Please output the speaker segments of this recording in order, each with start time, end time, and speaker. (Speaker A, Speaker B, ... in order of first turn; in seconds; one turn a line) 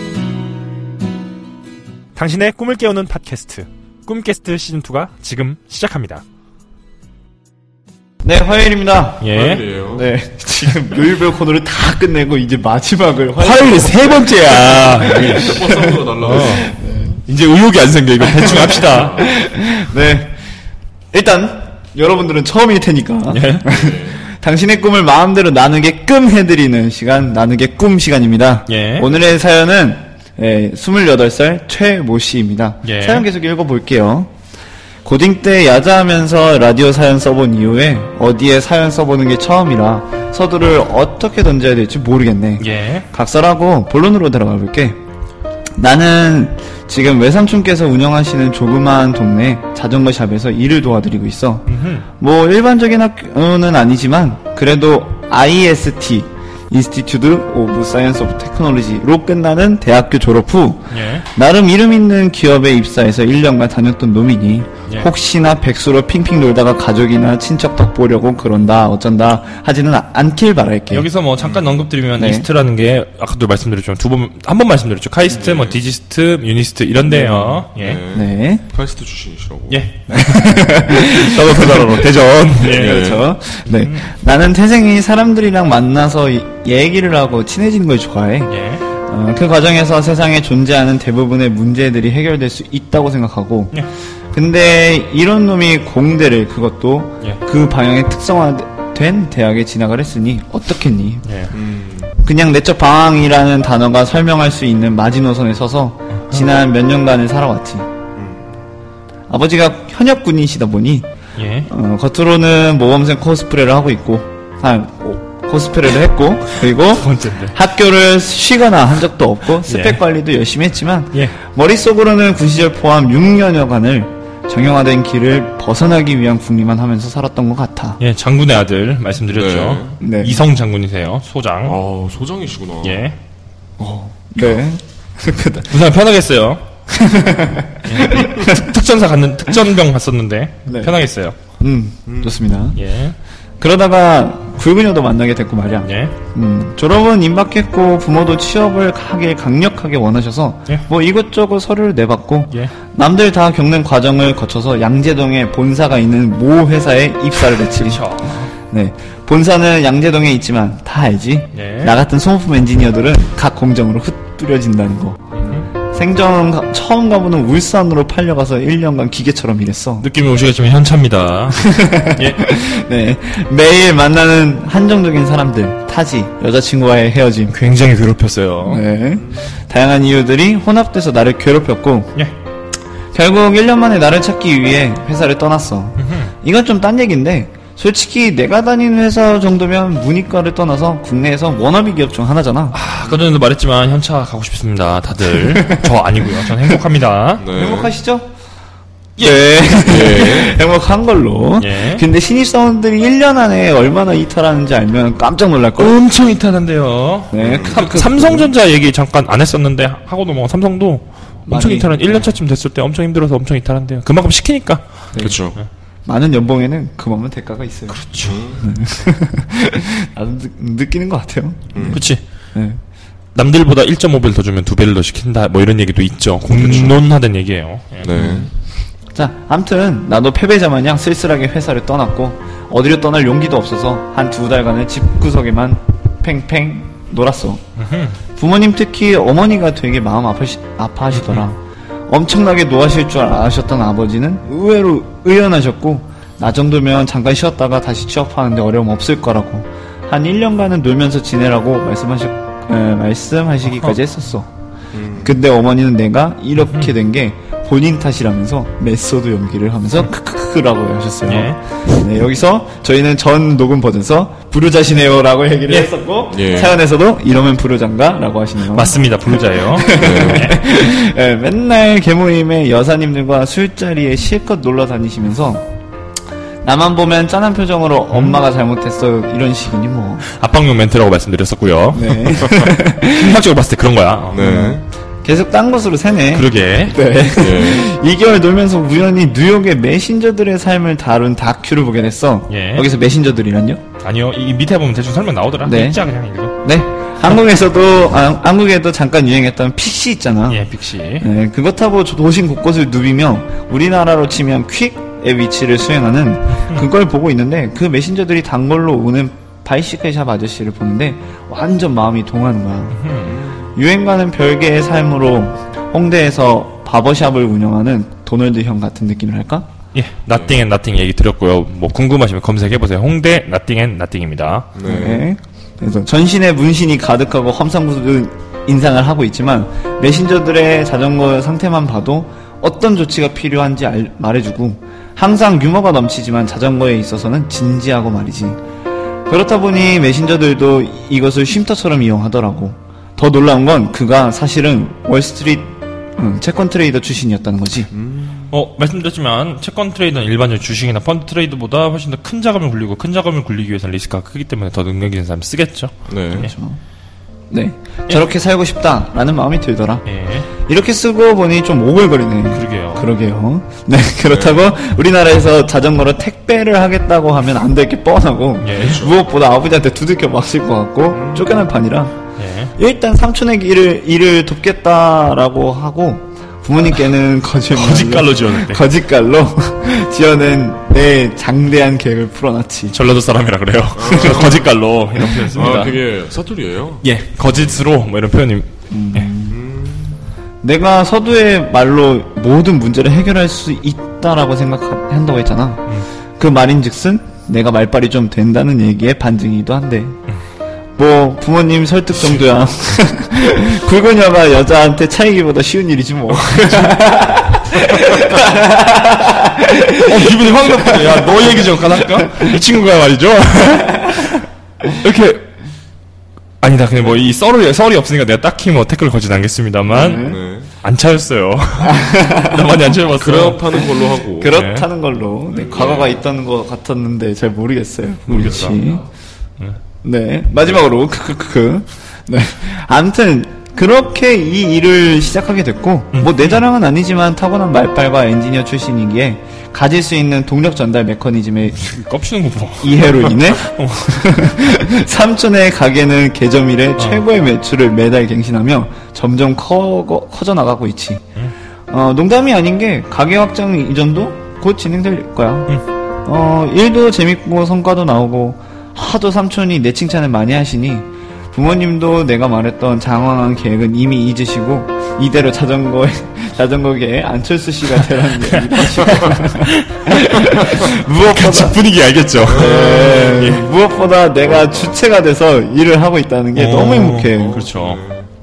Speaker A: 2.1-6.2
Speaker B: 8.2-9.3
Speaker A: 9.2-9.7
Speaker C: 9.3-10.1
Speaker B: 9.8-17.2
Speaker A: 13.3-15.6
Speaker C: 14.7-16.7
Speaker A: 16.2-19.3
Speaker B: 18.2-20.4
Speaker C: 18.4-19.2
Speaker B: 21.1-34.3
Speaker A: 23.3-23.7
Speaker C: 23.7-24.2
Speaker A: 28.7-29.1
Speaker A: 32.8-33.2
Speaker B: 35.0-45.0
Speaker A: 42.6-43.1
Speaker B: 45.8-71.1
Speaker A: 51.7-52.0
Speaker A: 60.9-61.3
Speaker A: 70.9-78.0
Speaker C: 71.4-71.7
Speaker B: 72.2-72.5
Speaker C: 75.3-75.8
Speaker B: 77.0-78.7
Speaker C: 77.7-79.8
Speaker A: 79.7-83.0
Speaker B: 80.1-88.5
Speaker C: 82.7-83.2
Speaker A: 83.6-84.1
Speaker A: 88.5-88.8
Speaker B: 89.0-101.2
Speaker A: 101.2-101.5
Speaker C: 101.5-102.1
Speaker B: 102.2-107.9
Speaker A: 106.1-106.5
Speaker C: 108.2-108.4
Speaker B: 109.3-111.1
Speaker A: 111.3-111.7
Speaker B: 111.6-128.0
Speaker A: 116.8-117.5
Speaker A: 119.6-120.0
Speaker A: 128.0-131.8
Speaker C: 129.3-129.9
Speaker B: 130.0-130.4
Speaker C: 131.7-133.0
Speaker A: 132.8-133.2
Speaker B: 133.8-135.8
Speaker A: 135.7-136.7
Speaker B: 136.9-138.6
Speaker A: 137.8-141.4
Speaker B: 140.7-141.0
Speaker B: 141.6-142.8
Speaker C: 142.1-142.4
Speaker A: 142.8-143.2
Speaker B: 143.6-158.1
Speaker A: 145.8-146.2
Speaker A: 157.7-158.5
Speaker B: 158.7-170.1
Speaker A: 161.5-162.0
Speaker A: 165.4-165.7
Speaker A: 170.0-172.4
Speaker B: 171.5-177.6
Speaker A: 177.5-178.8
Speaker B: 178.7-182.2
Speaker C: 179.2-179.5
Speaker B: 183.1-193.2
Speaker A: 186.0-186.3
Speaker A: 192.7-197.5
Speaker B: 195.3-196.8
Speaker C: 197.4-197.9
Speaker B: 197.5-198.3
Speaker A: 199.2-200.2
Speaker B: 199.2-206.0
Speaker C: 199.8-200.6
Speaker A: 201.6-202.1
Speaker A: 205.8-215.7
Speaker B: 207.3-208.5
Speaker C: 207.4-207.8
Speaker B: 211.5-212.4
Speaker B: 215.1-215.4
Speaker C: 215.2-215.6
Speaker B: 216.1-218.0
Speaker A: 217.9-218.6
Speaker C: 218.2-218.7
Speaker B: 218.6-222.0
Speaker C: 221.7-222.1
Speaker A: 221.9-222.2
Speaker B: 222.5-222.8
Speaker A: 223.3-228.1
Speaker C: 226.5-227.0
Speaker C: 228.0-228.5
Speaker B: 228.2-228.5
Speaker B: 229.1-237.6
Speaker A: 237.8-238.2
Speaker B: 238.4-254.5
Speaker A: 241.1-241.5
Speaker A: 253.7-254.0
Speaker C: 254.9-255.3
Speaker B: 255.1-275.6
Speaker A: 256.6-256.9
Speaker A: 261.2-261.6
Speaker A: 265.7-265.9
Speaker C: 266.3-266.8
Speaker A: 268.6-270.6
Speaker C: 269.9-270.5
Speaker B: 276.6-280.2
Speaker A: 278.1-278.4
Speaker A: 280.2-282.5
Speaker B: 281.9-283.4
Speaker A: 283.1-284.4
Speaker C: 284.3-284.8
Speaker B: 284.4-293.8
Speaker A: 286.3-287.0
Speaker C: 287.4-287.9
Speaker A: 292.5-292.9
Speaker A: 294.0-296.6
Speaker B: 295.6-300.7
Speaker A: 300.5-301.3
Speaker B: 301.2-313.0
Speaker A: 306.5-306.9
Speaker A: 312.9-313.3
Speaker C: 313.2-313.7
Speaker B: 313.8-319.7
Speaker A: 319.9-324.7
Speaker C: 320.3-320.6
Speaker C: 324.8-325.3
Speaker B: 324.8-338.6
Speaker B: 339.3-347.9
Speaker C: 347.9-348.5
Speaker A: 348.5-356.5
Speaker C: 356.1-356.5
Speaker B: 356.3-356.8
Speaker B: 357.5-372.2
Speaker A: 360.0-360.5
Speaker A: 362.5-363.1
Speaker C: 364.2-364.6
Speaker A: 368.6-369.0
Speaker C: 368.8-369.1
Speaker C: 371.1-371.7
Speaker A: 372.4-372.7
Speaker B: 372.8-382.9
Speaker A: 377.7-378.8
Speaker A: 382.9-386.0
Speaker C: 383.9-384.8
Speaker B: 384.1-384.5
Speaker B: 385.2-385.5
Speaker C: 385.5-387.6
Speaker A: 387.0-389.3
Speaker B: 388.9-389.6
Speaker C: 389.5-390.2
Speaker B: 390.6-400.2
Speaker B: 400.9-412.6
Speaker A: 410.0-414.4
Speaker A: 414.9-415.5
Speaker A: 416.6-420.3
Speaker B: 419.9-420.4
Speaker C: 420.1-420.7
Speaker A: 420.8-423.9
Speaker B: 421.8-422.6
Speaker C: 423.1-424.5
Speaker B: 424.3-429.1
Speaker A: 424.5-424.9
Speaker C: 425.6-426.2
Speaker A: 428.2-428.8
Speaker B: 430.0-441.8
Speaker A: 436.1-436.6
Speaker A: 441.8-444.5
Speaker B: 442.8-451.2
Speaker A: 447.0-447.2
Speaker B: 451.9-471.8
Speaker A: 468.5-473.6
Speaker B: 472.5-477.6
Speaker C: 472.5-473.6
Speaker C: 474.4-475.0
Speaker A: 476.5-478.0
Speaker C: 477.3-478.3